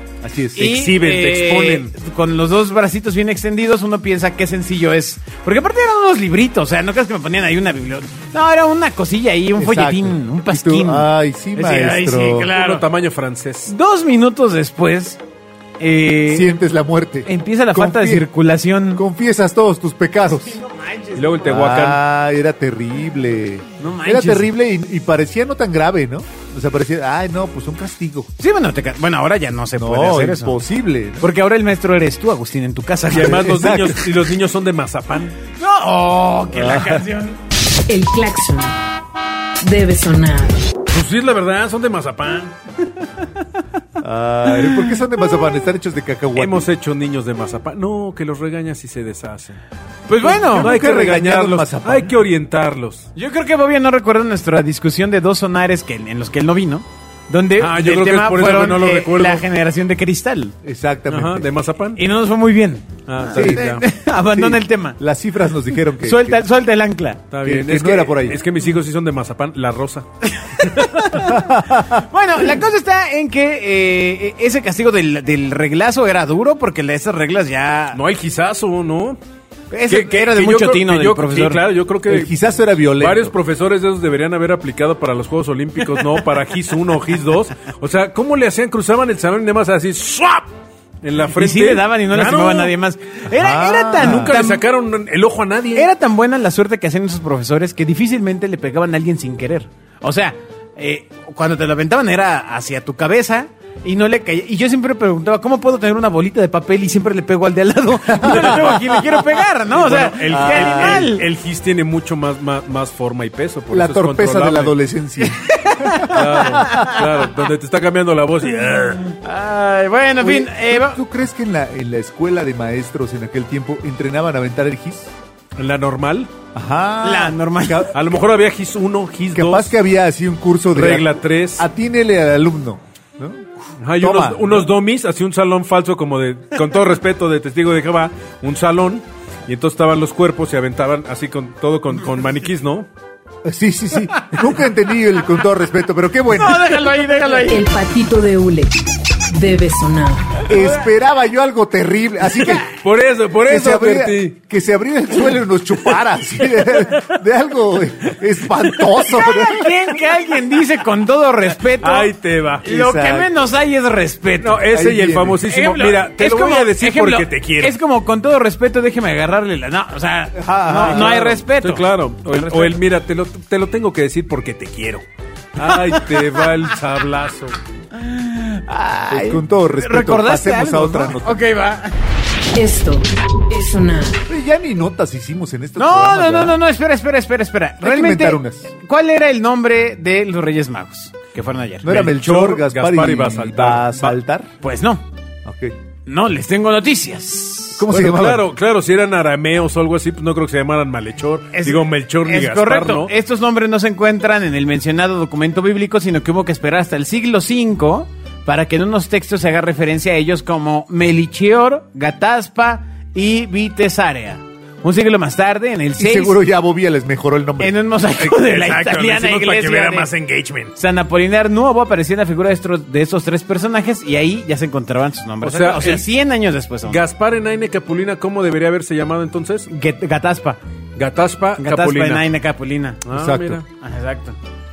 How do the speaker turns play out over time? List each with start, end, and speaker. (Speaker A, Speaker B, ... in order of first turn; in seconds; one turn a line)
Speaker A: 0.2-0.7
Speaker B: 0.6-12.8
Speaker C: 0.6-1.9
Speaker A: 9.6-12.5
Speaker C: 12.5-13.7
Speaker B: 13.7-15.2
Speaker B: 15.8-16.5
Speaker A: 16.3-18.3
Speaker B: 17.3-19.0
Speaker A: 18.9-20.6
Speaker B: 20.4-21.5
Speaker C: 21.1-22.0
Speaker A: 21.4-28.3
Speaker B: 23.8-24.5
Speaker B: 28.4-30.6
Speaker A: 29.8-31.3
Speaker B: 31.2-33.5
Speaker C: 33.1-35.4
Speaker A: 33.1-34.1
Speaker B: 35.6-37.4
Speaker A: 36.5-37.1
Speaker D: 37.9-38.8
Speaker D: 39.6-40.6
Speaker C: 40.9-42.5
Speaker A: 44.0-46.7
Speaker B: 44.5-45.0
Speaker C: 46.4-49.6
Speaker B: 50.1-50.7
Speaker A: 50.2-52.1
Speaker C: 50.3-53.1
Speaker B: 53.2-60.5
Speaker C: 57.6-59.4
Speaker A: 60.6-61.5
Speaker C: 61.1-62.0
Speaker B: 62.0-65.0
Speaker C: 63.1-63.8
Speaker A: 63.3-63.7
Speaker A: 64.3-66.4
Speaker B: 66.0-67.3
Speaker C: 67.3-70.1
Speaker A: 67.4-68.4
Speaker B: 70.3-78.0
Speaker C: 70.6-71.2
Speaker A: 71.3-72.0
Speaker C: 77.9-79.2
Speaker B: 79.7-81.7
Speaker C: 79.9-82.4
Speaker A: 82.1-83.3
Speaker C: 82.9-92.7
Speaker B: 91.3-94.6
Speaker A: 93.3-94.4
Speaker C: 94.0-95.9
Speaker B: 95.7-111.3
Speaker A: 108.1-108.8
Speaker C: 108.2-109.0
Speaker C: 109.7-114.8
Speaker A: 110.3-111.1
Speaker A: 113.7-116.5
Speaker B: 115.2-117.1
Speaker C: 116.0-119.2
Speaker B: 119.1-121.0
Speaker A: 120.2-125.1
Speaker C: 125.6-126.3
Speaker A: 126.5-127.9
Speaker B: 127.0-127.9
Speaker C: 127.9-129.7
Speaker A: 129.3-133.5
Speaker C: 130.7-131.7
Speaker C: 133.8-142.9
Speaker A: 134.0-134.6
Speaker A: 143.4-146.7
Speaker B: 146.3-147.7
Speaker D: 147.5-148.7
Speaker D: 149.3-150.4
Speaker A: 150.5-152.7
Speaker C: 152.7-154.3
Speaker A: 153.4-159.8
Speaker B: 159.1-164.7
Speaker C: 161.7-162.7
Speaker A: 162.7-163.3
Speaker C: 164.4-167.8
Speaker A: 164.7-165.4
Speaker B: 165.5-172.8
Speaker A: 170.3-171.4
Speaker C: 170.8-175.0
Speaker C: 175.6-177.6
Speaker B: 175.6-176.6
Speaker B: 177.9-182.0
Speaker A: 179.1-181.4
Speaker D: 182.6-184.2
Speaker A: 184.3-186.6
Speaker B: 185.8-192.1
Speaker A: 187.8-188.7
Speaker A: 191.8-194.5
Speaker C: 191.9-194.2
Speaker B: 194.6-195.0
Speaker A: 195.4-195.8
Speaker B: 196.1-197.8
Speaker A: 197.8-198.5
Speaker C: 197.9-203.1
Speaker B: 201.5-216.4
Speaker A: 216.0-217.8
Speaker B: 217.6-220.1
Speaker C: 218.2-220.7
Speaker B: 220.8-227.0
Speaker C: 225.4-226.1
Speaker C: 226.9-229.7
Speaker B: 229.7-230.6
Speaker C: 231.0-232.2
Speaker B: 231.6-233.1
Speaker C: 233.1-233.6
Speaker A: 233.1-233.6
Speaker B: 233.7-234.4